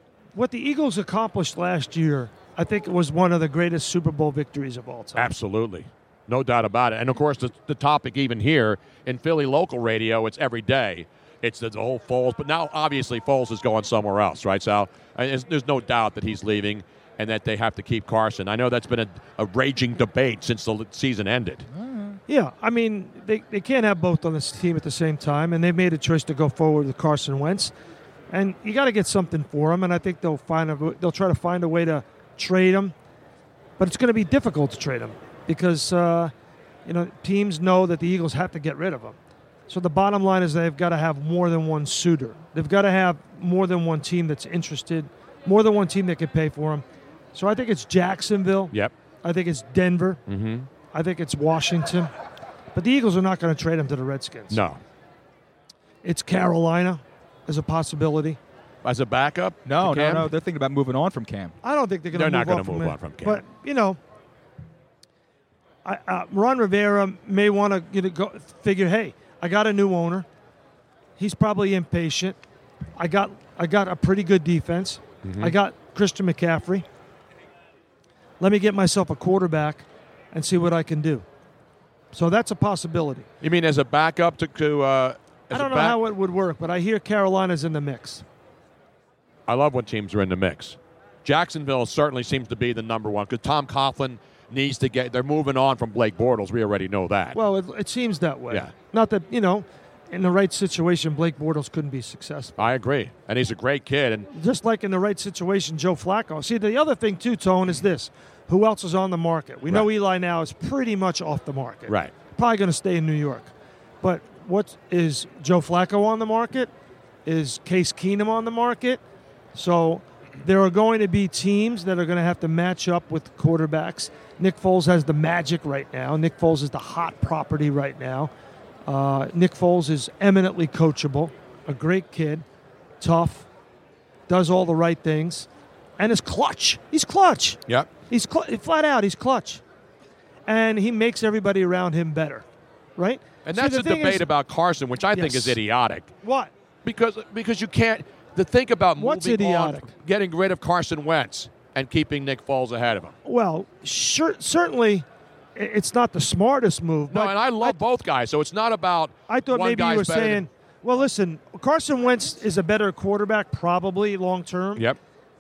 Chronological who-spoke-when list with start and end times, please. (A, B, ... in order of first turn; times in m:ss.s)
0:00.4-0:05.3 A
0:05.2-0:21.7 B
0:21.7-0:22.2 C
0:22.3-0:27.7 A
0:28.3-0:32.9 A
0:33.8-0:36.3 A
0:36.9-0:39.2 A
0:39.7-0:50.2 A
0:50.3-0:50.7 B
0:50.9-0:52.1 A
0:52.7-0:54.6 A
0:54.5-0:54.8 B
0:56.0-0:58.4 A
0:58.8-1:00.3 B
0:59.7-1:01.6 C
1:01.6-1:04.0 A
1:02.1-1:03.4 B
1:05.8-1:10.3 A
1:11.2-1:12.4 A
1:13.0-1:16.8 A
1:15.2-1:15.6 B
1:18.4-1:21.2 A
1:22.1-1:23.3 A
1:23.4-1:26.0 B
1:25.5-1:28.2 A
1:29.5-1:37.4 B
1:37.3-1:42.6 A
1:42.6-1:44.3 B
1:44.3-1:56.7 A
1:57.3-1:59.0 A
1:59.5-2:08.3 A
2:08.9-2:12.4 A
2:13.0-2:13.5 A
2:14.3-2:17.6 A
2:18.1-2:19.6 A
2:20.5-2:22.4 A
2:23.0-2:24.3 A
2:23.4-2:26.1 B
2:25.1-2:25.6 A
2:26.2-2:26.5 A
2:26.8-2:33.1 B
2:29.0-2:29.9 A
2:33.2-2:37.8 A
2:37.1-2:40.5 B
2:39.3-2:44.9 A